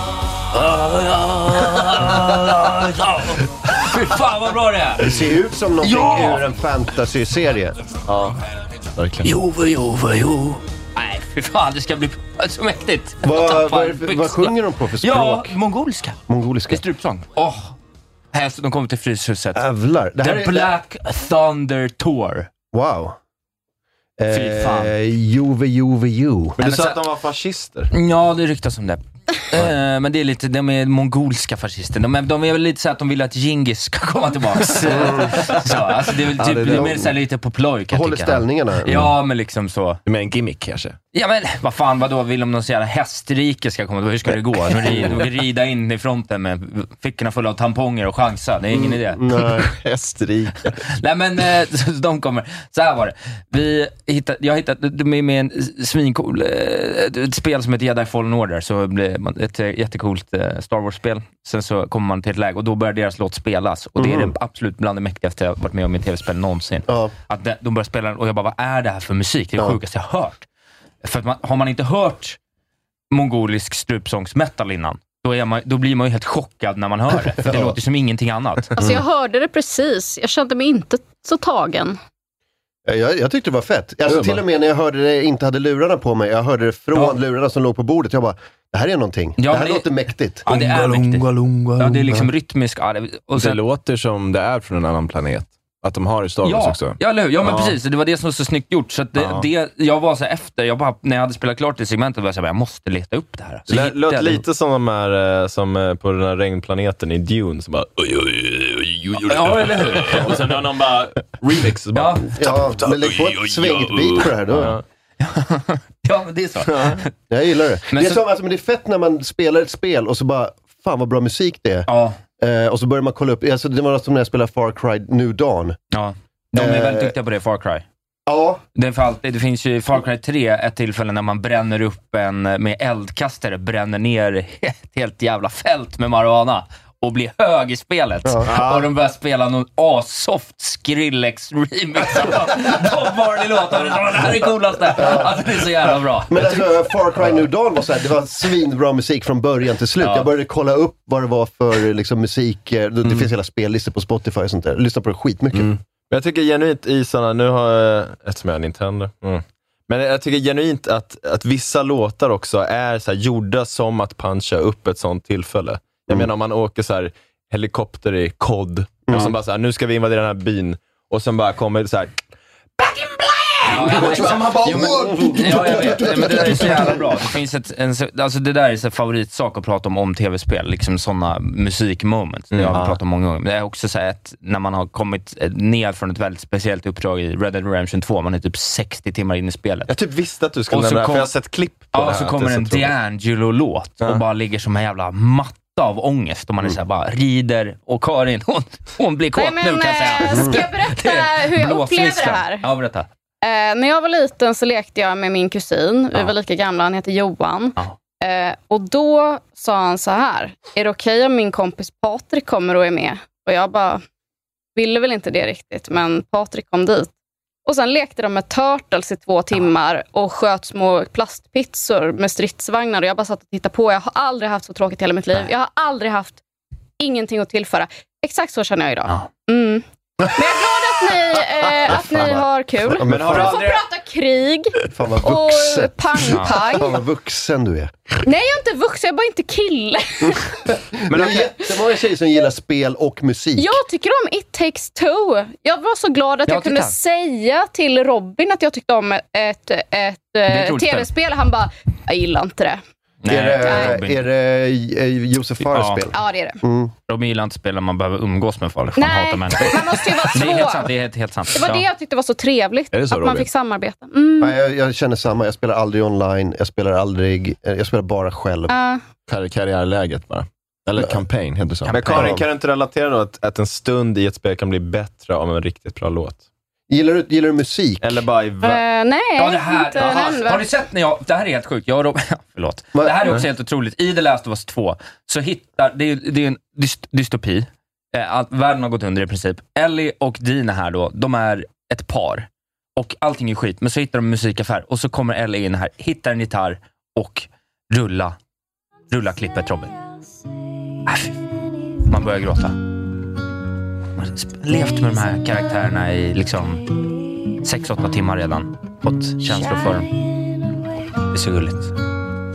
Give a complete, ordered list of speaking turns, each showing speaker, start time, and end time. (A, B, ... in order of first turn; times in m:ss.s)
0:00.5-0:05.2 A
0:05.0-0:07.8 B
0:05.8-0:06.4 A
0:09.2-0:16.2 A
0:13.2-0:15.6 B
0:16.3-0:16.8 B
0:16.7-0:17.8 A
0:18.3-0:19.6 A
0:19.6-0:20.7 B
0:20.2-0:22.5 A
0:22.7-0:23.2 B
0:24.2-0:26.6 B
0:24.3-0:24.9 A
0:26.6-0:27.9 C
0:26.6-0:27.0 A
0:27.9-0:40.0 A
0:34.9-0:35.6 B
0:36.4-0:37.2 B
0:37.9-0:39.1 B
0:40.1-0:40.9 C
0:41.1-0:49.2 A
0:49.1-0:49.7 B
0:49.7-0:50.7 D
0:50.8-1:10.5 A
1:04.0-1:04.4 B
1:06.9-1:07.1 B
1:11.0-1:12.4 A
1:13.1-1:18.7 A
1:17.4-1:17.8 B
1:18.8-1:22.0 E
1:22.9-1:30.5 B
1:29.4-1:29.9 A
1:30.4-1:33.6 A
1:30.5-1:32.0 D
1:33.4-1:37.7 D
1:36.4-1:44.4 A
1:43.7-1:54.8 C
1:49.2-1:50.4 A
1:51.9-1:52.3 A
1:52.3-1:54.8 B
1:55.2-1:57.1 A
1:57.3-2:01.9 B
1:57.9-1:58.2 A
2:01.9-2:02.2 A
2:02.4-2:05.8 B
2:05.9-2:07.8 A
2:06.6-2:07.1 B
2:08.3-2:08.6 B
2:08.8-2:26.6 A
2:18.2-2:18.5 B
2:25.0-2:25.3 B
2:26.3-2:35.7 B
2:30.0-2:30.3 A
2:36.1-2:52.1 C
2:49.1-2:49.4 B
2:52.8-2:56.3 C
2:53.7-3:09.9 A
2:54.3-2:54.5 D
2:55.3-2:56.9 B
3:02.5-3:03.0 C
3:09.9-3:12.9 C
3:10.7-3:11.3 A
3:11.9-3:23.1 A
3:19.4-3:22.7 E
3:23.4-3:34.0 E
3:34.8-3:37.1 E
3:37.7-3:46.4 E
3:47.0-3:57.0 E
3:52.0-3:53.6 B
3:53.0-3:53.9 C
3:54.9-3:58.0 B
3:58.2-4:00.6 E
4:00.2-4:03.8 B
4:01.1-4:01.6 C
4:03.6-4:12.8 E
4:06.5-4:07.0 A
4:10.5-4:11.1 A
4:13.2-4:14.2 A
4:13.3-4:16.9 B
4:13.6-4:13.9 E
4:15.7-4:16.0 A
4:16.1-4:16.6 E
4:17.1-4:21.8 A
4:19.0-4:20.9 E
4:21.5-4:24.6 E
4:23.0-4:23.3 C
4:24.4-4:28.7 B
4:28.7-4:29.0 E
4:29.3-4:32.4 D
4:31.8-4:32.3 A
4:31.9-4:36.4 C
4:36.9-4:38.2 B
4:38.0-4:38.8 C
4:38.6-4:40.7 E
4:39.4-4:58.4 A
4:42.9-4:43.4 B
4:59.1-4:59.9 A
5:01.0-5:01.4 A
5:02.0-5:02.8 A
5:04.2-5:07.0 A
5:07.6-5:10.1 A
5:11.3-5:12.0 A